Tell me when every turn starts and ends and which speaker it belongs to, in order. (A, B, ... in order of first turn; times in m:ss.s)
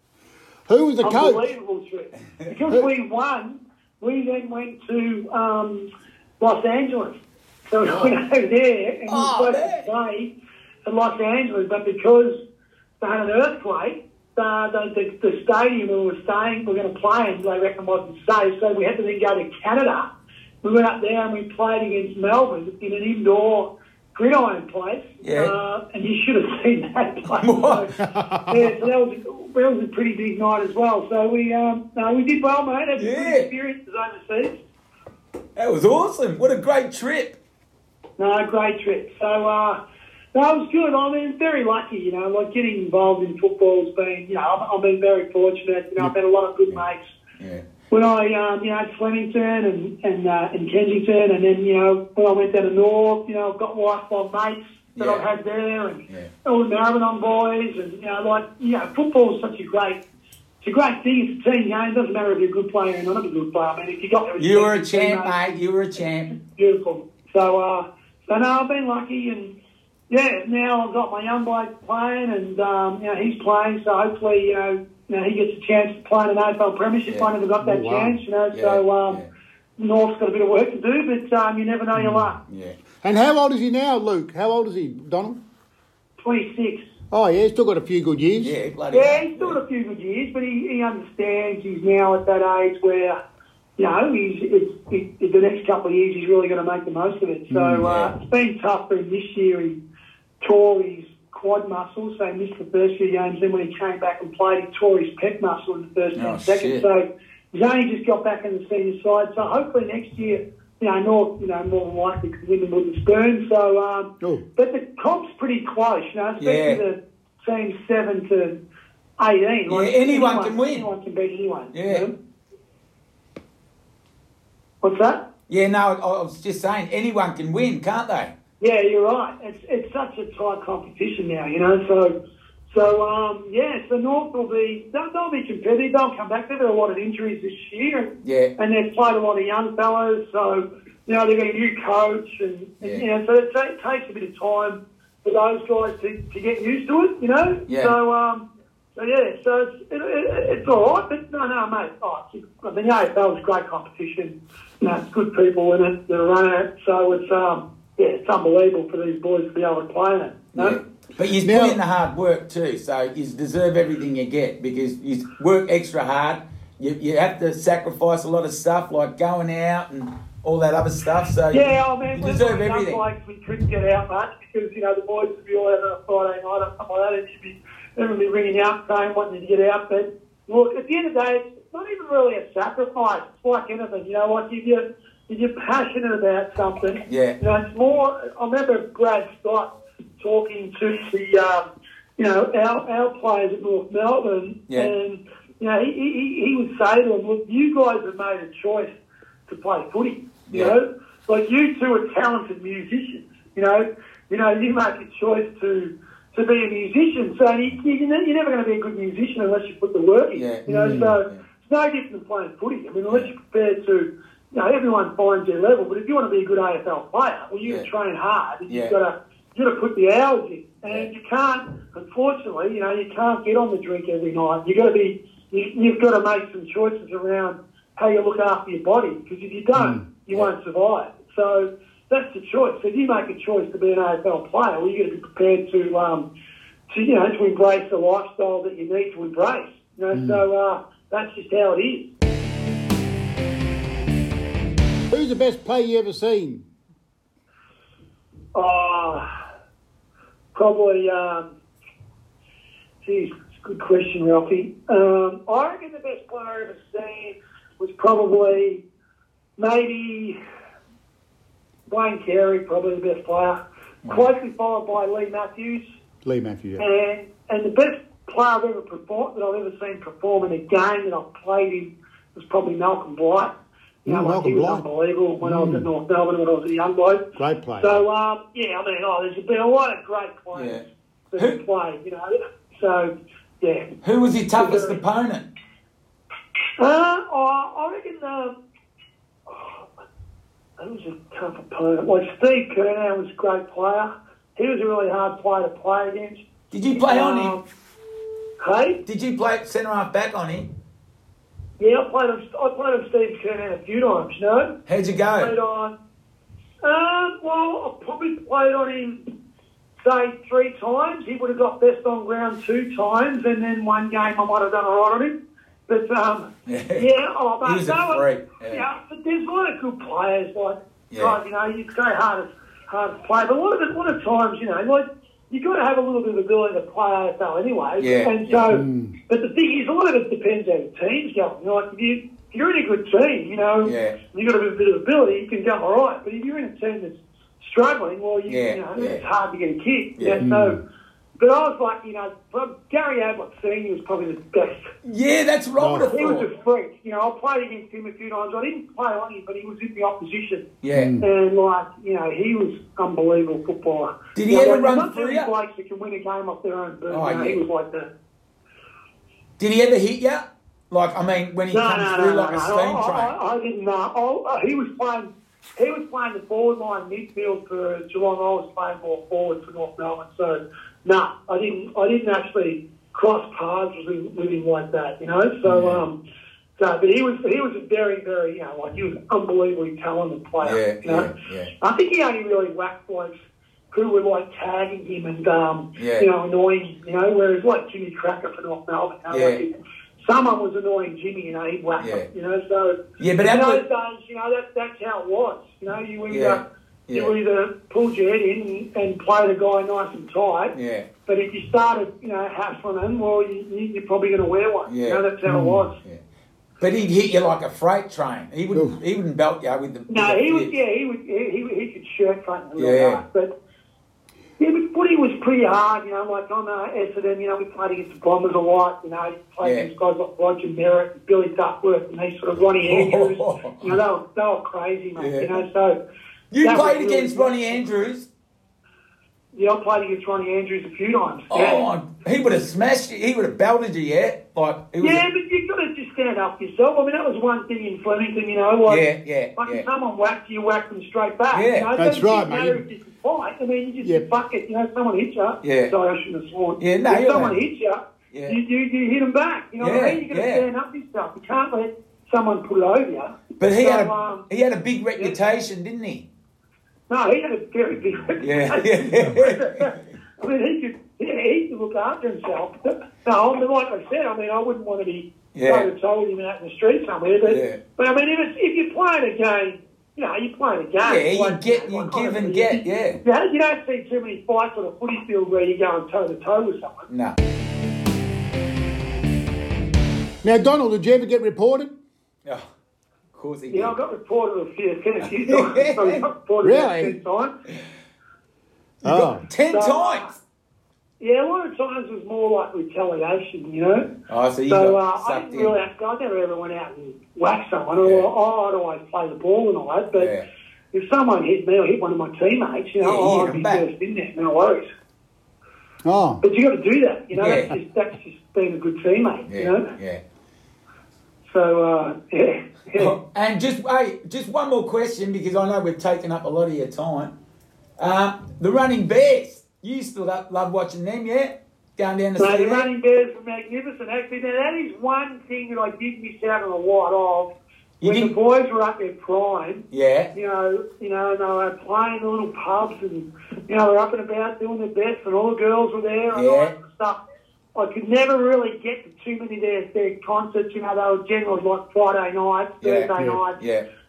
0:00.7-0:01.4 A
0:01.0-0:05.9 B
0:06.4-0:10.3 B
0:07.8-0:08.1 A
0:09.1-0:09.9 C
0:10.8-0:12.4 B
0:13.0-0:20.0 B
0:20.6-0:27.9 B
0:25.2-0:25.5 C
0:27.4-0:27.9 C
0:28.0-0:28.7 A
0:28.5-0:34.6 B
0:33.0-0:33.5 C
0:35.6-0:37.4 C
0:38.2-0:39.8 B
0:40.3-0:47.0 B
0:47.4-0:47.6 C
0:47.9-1:00.0 B
0:55.0-0:55.2 C
1:00.6-1:05.6 B
1:04.4-1:06.3 C
1:06.3-1:09.5 B
1:10.1-1:19.2 B
1:17.6-1:18.2 A
1:18.5-1:19.3 C
1:19.8-1:22.4 B
1:22.0-1:22.3 A
1:22.5-1:22.8 C
1:23.0-1:25.4 A
1:26.2-1:26.8 B
1:27.1-1:28.6 A
1:28.4-1:29.6 C
1:28.9-1:33.2 B
1:33.8-1:39.8 B
1:37.5-1:37.9 A
1:37.8-1:38.1 C
1:40.4-1:58.6 B
1:46.2-1:46.8 C
1:56.4-1:56.8 C
1:59.2-2:02.1 B
1:59.7-2:00.9 C
2:01.7-2:02.1 C
2:04.8-2:05.3 B
2:05.5-2:08.3 C
2:08.6-2:12.1 B
2:12.7-2:40.8 B
2:18.2-2:18.5 C
2:27.7-2:27.9 C
2:40.5-2:53.0 C
2:41.4-2:41.8 A
2:51.5-3:18.9 B
3:07.1-3:07.4 C
3:19.5-3:56.3 B
3:30.3-3:31.4 C
3:30.7-3:31.1 A
3:38.7-3:38.9 C
3:49.7-3:50.0 A
3:56.9-4:02.1 B
4:00.1-4:00.4 A
4:05.1-4:06.6 A
4:08.5-4:09.2 B
4:10.5-4:11.5 B
4:13.0-4:18.8 B
4:19.6-4:20.4 B
4:21.9-4:25.8 B
4:26.2-4:26.8 A
4:26.8-4:37.2 B
4:34.0-4:34.8 A
4:35.4-4:35.9 A
4:37.4-4:38.0 A
4:37.8-4:40.8 B
4:40.5-4:40.8 C
4:41.3-4:43.9 B
4:44.0-4:45.5 C
4:44.5-4:45.0 B
4:46.8-4:48.6 B
4:49.5-4:49.8 B
4:50.8-4:57.6 B
4:56.7-4:57.6 C
4:58.6-4:59.0 B
4:59.0-5:00.7 C
5:01.8-5:04.8 B
5:04.9-5:05.5 C
5:05.4-5:06.0 B
5:06.8-5:09.2 B
5:10.0-5:15.3 B
5:15.9-5:40.8 B
5:16.7-5:17.0 C
5:17.6-5:18.8 C
5:21.1-5:21.4 C
5:28.0-5:28.7 C
5:28.7-5:29.1 A
5:33.8-5:34.2 C
5:38.5-5:39.2 C
5:40.2-5:40.4 C
5:40.4-5:40.8 A
5:41.4-5:44.8 B
5:45.0-5:46.5 C
5:45.8-5:46.1 A
5:46.1-5:50.6 B
5:50.8-5:51.2 C
5:50.9-5:51.3 A
5:51.2-5:58.1 B
5:54.3-5:55.5 C
5:57.1-5:57.6 C
5:59.6-6:03.3 C
6:01.7-6:16.2 B
6:15.6-6:16.0 A
6:16.8-6:23.4 B
6:20.6-6:21.7 C
6:23.9-6:40.7 B
6:26.0-6:26.3 C
6:29.3-6:29.6 C
6:32.0-6:32.2 C
6:33.2-6:33.8 C
6:36.3-6:37.3 C
6:40.7-6:41.1 C
6:41.3-6:45.9 B
6:44.9-6:45.2 C
6:45.4-6:45.8 A
6:46.8-6:50.7 C
6:50.1-6:53.5 B
6:52.8-6:53.2 C
6:54.6-7:06.0 B
6:59.6-6:59.9 C
7:02.8-7:04.0 C
7:05.2-7:05.6 C
7:06.5-7:08.3 C
7:06.6-7:07.8 B
7:09.5-7:11.9 B
7:11.5-7:15.2 C
7:15.0-7:19.0 B
7:18.8-7:19.8 C
7:19.6-7:34.4 B
7:21.5-7:21.9 C
7:22.0-7:22.8 A
7:25.6-7:25.9 C
7:26.8-7:27.6 C
7:28.3-7:28.6 C
7:29.8-7:30.6 C
7:33.6-7:36.3 C
7:37.1-7:57.1 B
7:38.4-7:39.9 C
7:45.5-7:45.9 C
7:47.4-7:47.8 C
7:51.0-7:53.2 C
7:57.1-7:57.4 C
8:00.4-8:01.9 A
8:03.3-8:04.0 C
8:03.7-8:07.5 B
8:05.3-8:06.2 C
8:06.6-8:07.2 A
8:09.0-8:10.4 C
8:09.0-8:09.4 A
8:09.7-8:10.3 B
8:11.2-8:14.2 B
8:14.2-8:15.8 C
8:14.7-8:20.3 B
8:18.0-8:18.3 C
8:20.1-8:20.4 C
8:20.9-8:24.9 B
8:23.0-8:23.8 C
8:26.0-8:26.4 A
8:26.4-8:29.9 B
8:27.3-8:27.7 C
8:29.5-8:30.2 C
8:31.4-8:33.2 B
8:33.0-8:37.3 C
8:38.0-8:42.9 C
8:42.4-8:47.5 B
8:48.0-8:48.3 C
8:48.0-8:57.2 B
8:49.9-8:50.3 C
8:56.3-8:56.7 C
8:57.7-9:03.6 B
9:02.8-9:03.8 C